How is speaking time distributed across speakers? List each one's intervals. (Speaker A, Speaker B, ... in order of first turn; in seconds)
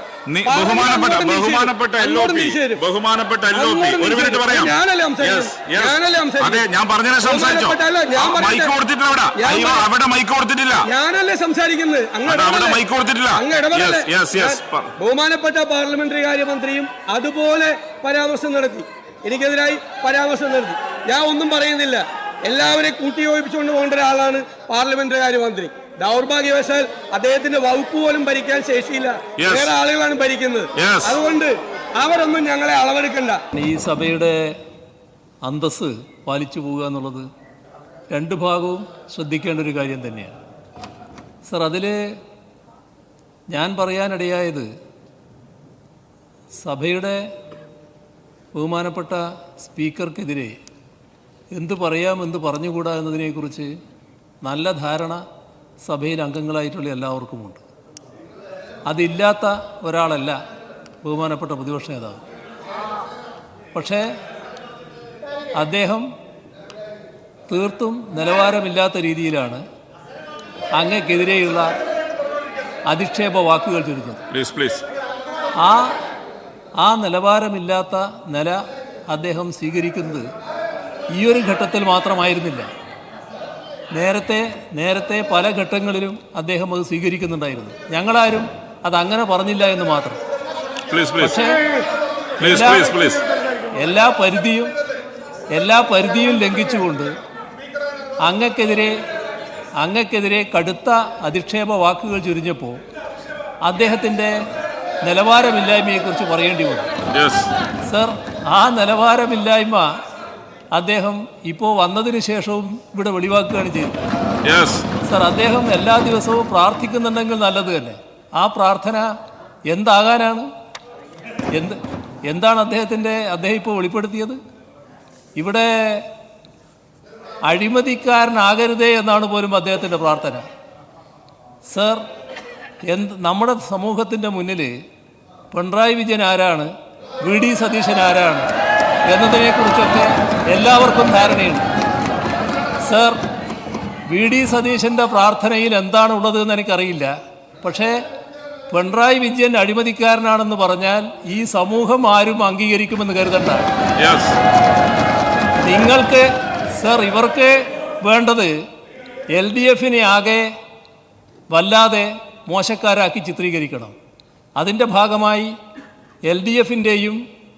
Speaker A: 0.3-10.9, 12.2-14.9, 29.4-29.7, 30.7-31.2, 74.3-74.8, 90.9-91.4, 92.4-93.2, 107.1-107.5, 114.4-114.8, 154.0-154.4
Speaker B: 0.5-2.8, 3.5-6.6, 7.2-8.7, 9.3-9.8, 10.8-12.8, 13.3-33.4
Speaker C: 33.5-34.6, 35.4-37.3, 38.1-40.4, 41.5-42.2, 43.5-44.7, 46.6-47.3, 48.5-50.6, 51.5-53.7, 54.4-55.2, 55.8-57.6, 58.9-60.4, 61.0-62.2, 63.7-64.1, 65.6-66.1, 67.5-69.6, 70.7-71.7, 72.9-74.2, 75.6-76.0, 76.8-80.3, 81.1-82.7, 83.9-90.2, 91.2-91.6, 92.4-92.9, 93.8-94.7, 95.5-97.1, 98.2-99.0, 99.8-102.8, 103.6-104.4, 105.0-106.9, 107.9-110.0, 110.7-114.0, 115.0-119.1, 119.7-120.5, 121.5-124.4, 125.4-126.1, 127.5-130.4, 131.7-132.0, 132.8-134.8, 135.5-138.5, 139.1-141.7, 142.8-143.2, 144.1-148.0, 148.7-153.7, 155.6-158.5, 159.3-160.5, 161.5-163.9, 164.6-165.5, 166.2-167.2